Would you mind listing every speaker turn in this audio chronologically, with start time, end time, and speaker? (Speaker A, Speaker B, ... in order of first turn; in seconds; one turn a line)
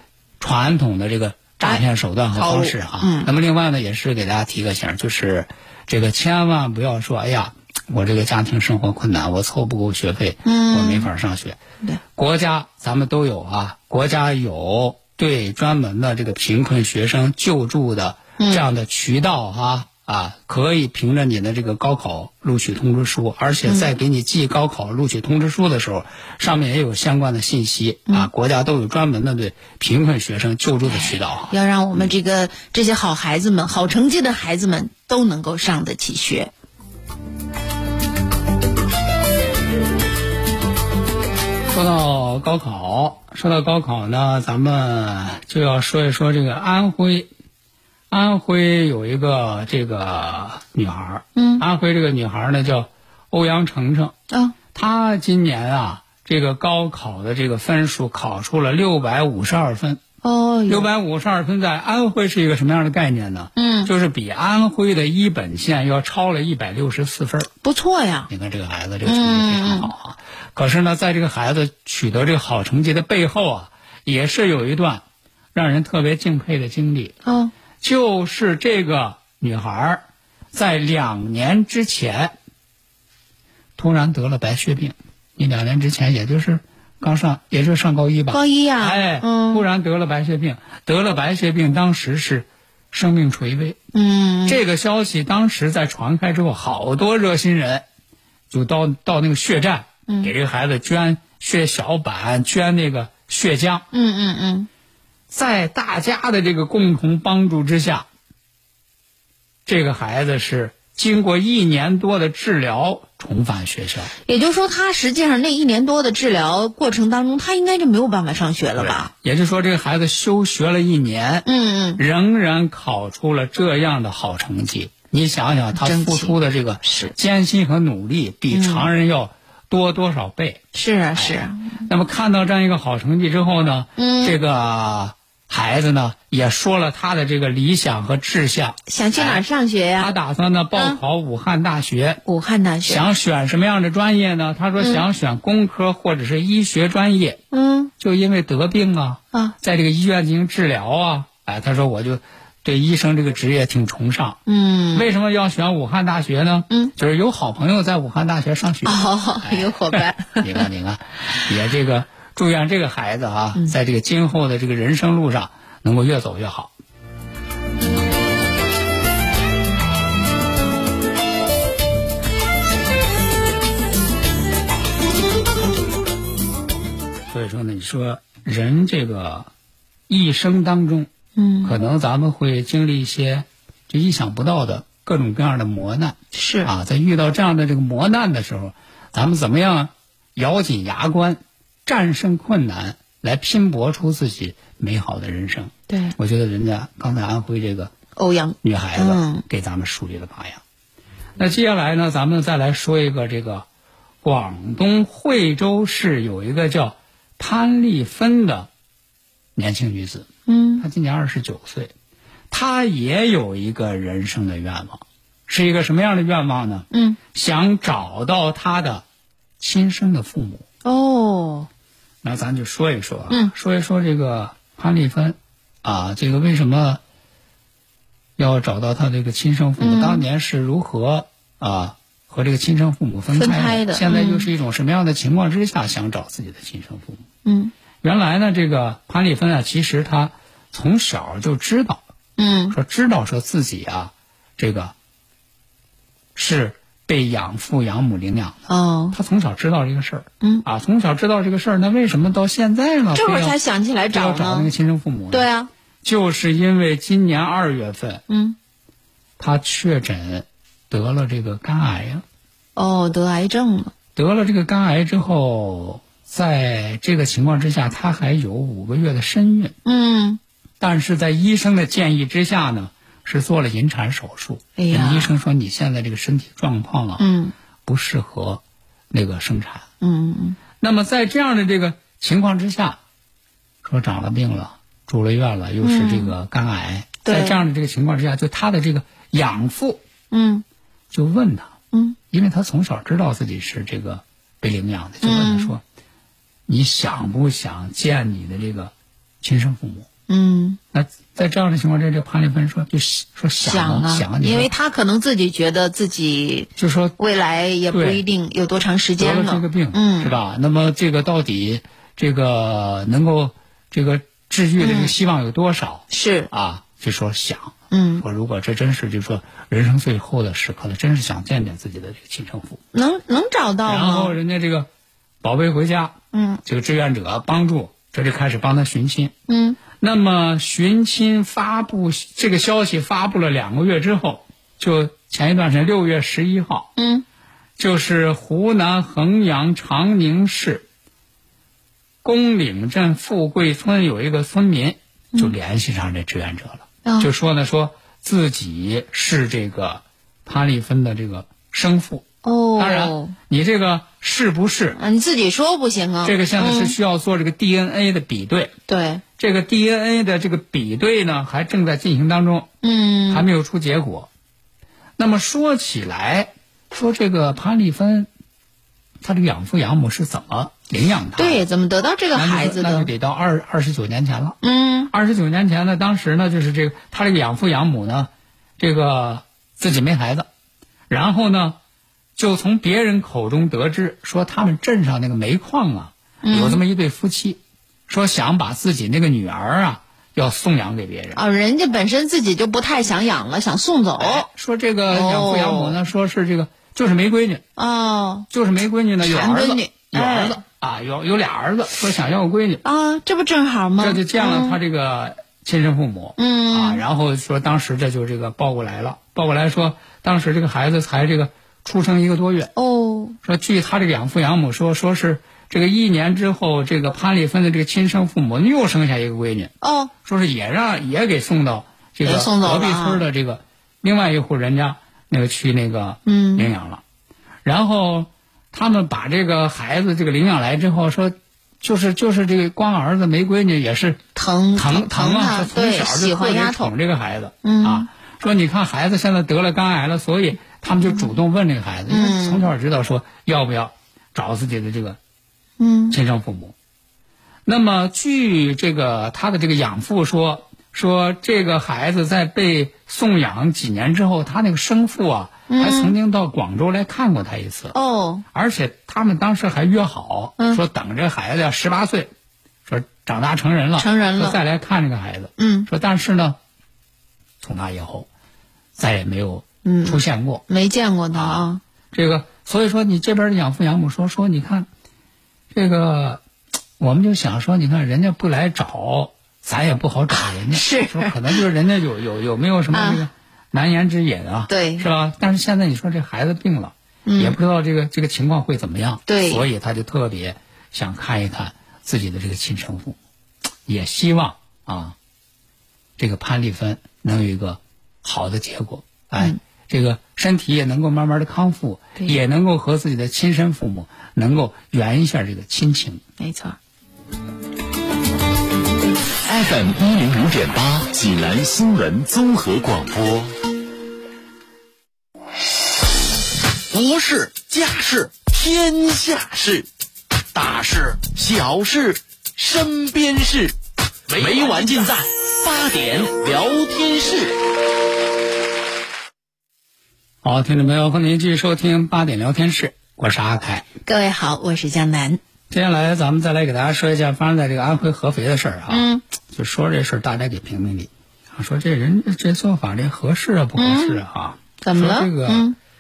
Speaker A: 0.4-11.6
Speaker B: 1.6-3.3
Speaker B: 10.4-11.1
Speaker A: 12.2-32.1
Speaker B: 18.4-18.6
Speaker B: 23.6-23.9
Speaker B: 30.8-36.5
Speaker A: 41.7-47.3
Speaker A: 48.1-54.1
Speaker B: 51.4-51.6
Speaker A: 54.7-60.0
Speaker B: 60.2-60.9
Speaker A: 60.7-67.5
Speaker B: 63.6-63.9
Speaker B: 67.6-68.3
Speaker A: 68.3-77.2
Speaker B: 69.0-69.9
Speaker B: 77.2-77.5
Speaker A: 77.8-82.3
Speaker A: 83.8-93.8
Speaker B: 88.3-89.6
Speaker B: 93.9-94.6
Speaker A: 94.5-97.8
Speaker A: 98.5-103.8
Speaker B: 100.1-100.3
Speaker B: 103.9-104.7
Speaker A: 105.3-108.0
Speaker A: 109.7-114.1
Speaker B: 114.2-119.1
Speaker A: 118.8-130.6
Speaker B: 121.5-122.0
Speaker B: 125.8-127.1
Speaker B: 128.5-128.9
Speaker B: 130.7-131.8
Speaker A: 131.1-139.4
Speaker B: 134.0-134.3
Speaker B: 138.9-140.1
Speaker A: 140.0-142.2
Speaker B: 142.2-143.0
Speaker A: 142.8-147.4
Speaker B: 144.8-145.0
Speaker B: 147.5-147.9
Speaker A: 148.0-154.4
Speaker B: 154.5-155.1
Speaker A: 154.9-166.7
Speaker B: 158.8-160.7
Speaker A: 177.3-179.5
Speaker A: 180.1-181.1
Speaker B: 181.3-181.8
Speaker A: 181.6-197.9
Speaker B: 186.3-186.7
Speaker B: 195.9-196.2
Speaker B: 198.2-199.4
Speaker A: 198.6-200.6
Speaker A: 201.4-203.7
Speaker A: 204.2-208.7
Speaker A: 209.6-211.9
Speaker B: 210.5-210.8
Speaker A: 212.5-219.0
Speaker B: 216.9-217.2
Speaker A: 219.6-220.6
Speaker B: 220.8-221.7
Speaker A: 222.2-227.0
Speaker A: 228.4-237.2
Speaker B: 229.8-230.2
Speaker B: 233.3-234.5
Speaker B: 237.4-237.7
Speaker A: 238.0-242.0
Speaker B: 242.4-242.8
Speaker A: 242.7-244.9
Speaker A: 246.3-253.6
Speaker B: 248.7-249.2
Speaker B: 253.1-254.7
Speaker A: 254.1-255.5
Speaker B: 255.3-255.7
Speaker A: 256.0-258.2
Speaker B: 258.3-258.6
Speaker A: 259.4-262.2
Speaker B: 262.8-263.9
Speaker A: 264.1-269.7
Speaker B: 269.8-270.4
Speaker A: 270.8-277.2
Speaker B: 274.8-275.3
Speaker B: 277.2-277.5
Speaker A: 277.8-279.9
Speaker B: 280.0-280.6
Speaker A: 280.8-283.0
Speaker A: 283.8-290.0
Speaker B: 285.8-286.3
Speaker B: 287.2-287.6
Speaker B: 290.3-290.6
Speaker A: 291.1-291.7
Speaker A: 292.3-295.8
Speaker B: 295.2-295.8
Speaker A: 296.7-300.1
Speaker B: 300.3-300.8
Speaker A: 300.9-304.7
Speaker B: 303.6-310.3
Speaker A: 306.8-307.1
Speaker A: 307.9-308.2
Speaker A: 309.2-322.8
Speaker B: 314.8-315.1
Speaker B: 316.1-316.5
Speaker B: 317.9-318.2
Speaker B: 322.9-324.4
Speaker A: 323.9-324.9
Speaker A: 325.4-329.3
Speaker B: 326.3-326.6
Speaker B: 329.5-329.8
Speaker A: 329.9-336.9
Speaker B: 337.0-337.2
Speaker A: 337.8-340.8
Speaker A: 342.2-355.0
Speaker B: 347.0-347.3
Speaker B: 352.4-353.3
Speaker B: 354.9-356.9
Speaker A: 356.2-358.7
Speaker B: 358.9-359.2
Speaker A: 359.4-362.7
Speaker B: 362.8-363.5
Speaker A: 363.3-364.3
Speaker A: 365.2-368.3
Speaker A: 369.2-371.6
Speaker B: 371.4-373.1
Speaker A: 372.3-374.6
Speaker B: 374.6-375.1
Speaker A: 375.1-380.5
Speaker A: 381.1-381.8
Speaker A: 382.4-391.4
Speaker B: 386.4-386.8
Speaker B: 391.3-394.5
Speaker A: 394.2-397.6
Speaker B: 395.1-396.0
Speaker B: 397.8-398.5
Speaker A: 398.5-402.8
Speaker B: 399.2-400.6
Speaker B: 402.8-404.8
Speaker A: 404.0-412.7
Speaker B: 406.4-407.0
Speaker B: 412.8-413.4
Speaker A: 413.4-419.7
Speaker B: 419.8-420.1
Speaker A: 420.2-427.0
Speaker B: 422.2-423.2
Speaker B: 426.2-426.7
Speaker A: 427.6-434.2
Speaker B: 434.3-436.9
Speaker A: 434.7-445.2
Speaker B: 437.6-438.1
Speaker B: 442.1-442.7
Speaker B: 445.8-446.2
Speaker A: 446.1-446.7
Speaker A: 447.6-457.9
Speaker B: 455.7-456.1
Speaker B: 457.9-458.4
Speaker A: 458.5-462.3
Speaker A: 462.9-466.6
Speaker B: 464.0-464.6
Speaker B: 465.6-465.9
Speaker A: 467.6-468.3
Speaker A: 468.9-470.6
Speaker B: 469.8-471.8
Speaker A: 471.3-474.9
Speaker A: 475.7-476.4
Speaker A: 477.0-493.2
Speaker B: 480.3-481.6
Speaker B: 482.9-483.2
Speaker B: 484.7-485.1
Speaker B: 487.2-487.6
Speaker B: 489.3-489.6
Speaker A: 493.9-495.1
Speaker A: 496.2-506.2
Speaker B: 506.4-506.8
Speaker C: 509.4-513.5
Speaker D: 516.9-519.9
Speaker D: 520.5-523.7
Speaker D: 524.3-527.5
Speaker A: 530.4-533.9
Speaker B: 534.0-535.4
Speaker A: 535.7-545.7
Speaker B: 538.9-539.2
Speaker B: 543.8-544.2
Speaker B: 544.8-545.8